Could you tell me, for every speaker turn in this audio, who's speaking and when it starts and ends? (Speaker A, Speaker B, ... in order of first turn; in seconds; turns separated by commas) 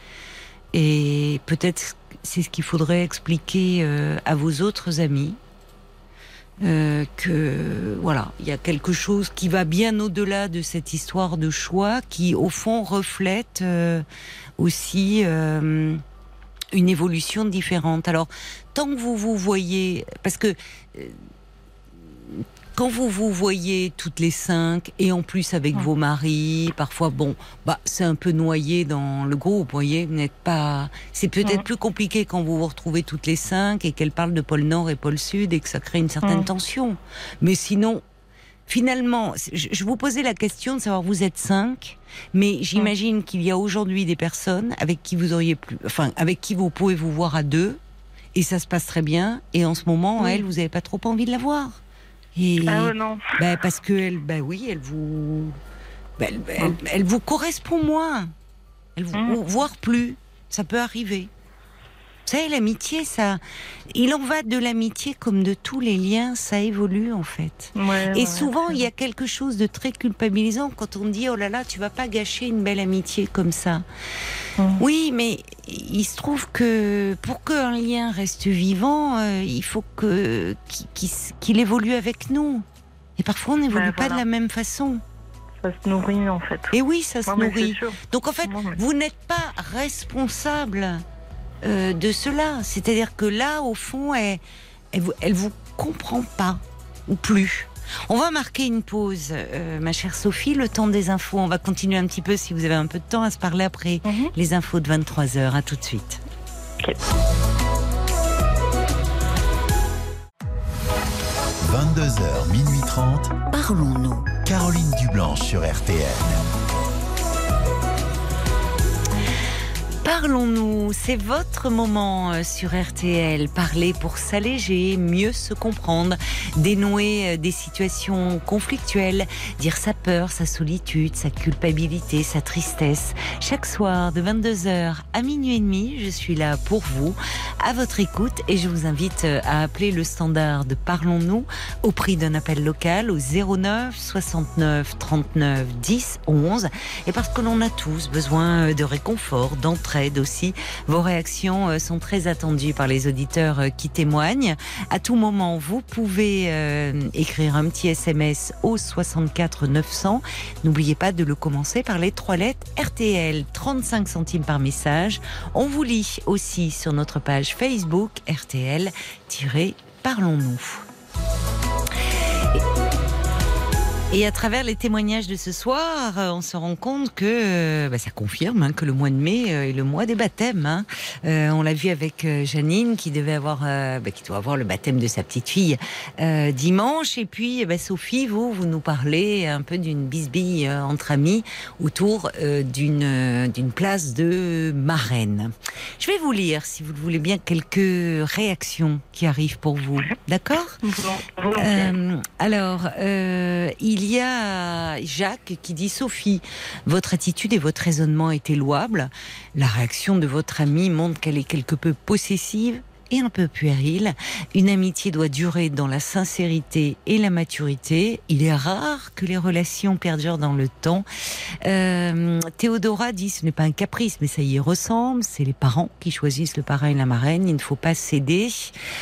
Speaker A: 0.7-5.4, Speaker A: 6.6-14.1, Speaker A: 14.6-16.0, Speaker A: 16.7-21.2, Speaker A: 22.3-38.0, Speaker A: 38.7-47.8, Speaker A: 48.3-51.8, Speaker B: 50.2-50.5, Speaker A: 52.4-55.6, Speaker B: 52.7-53.2, Speaker A: 56.2-58.3, Speaker A: 59.0-61.3, Speaker A: 62.3-73.8, Speaker B: 67.8-68.8, Speaker B: 74.6-74.8, Speaker A: 74.8-82.7, Speaker A: 83.2-85.0, Speaker B: 83.7-84.2, Speaker B: 85.6-86.7, Speaker A: 86.7-91.0, Speaker B: 87.3-88.8, Speaker A: 91.6-106.2, Speaker B: 104.1-104.3, Speaker C: 111.6-113.4, Speaker A: 113.5-114.3, Speaker C: 114.4-116.4, Speaker A: 120.0-170.9, Speaker A: 174.1-200.8, Speaker B: 200.8-201.9, Speaker A: 201.6-228.8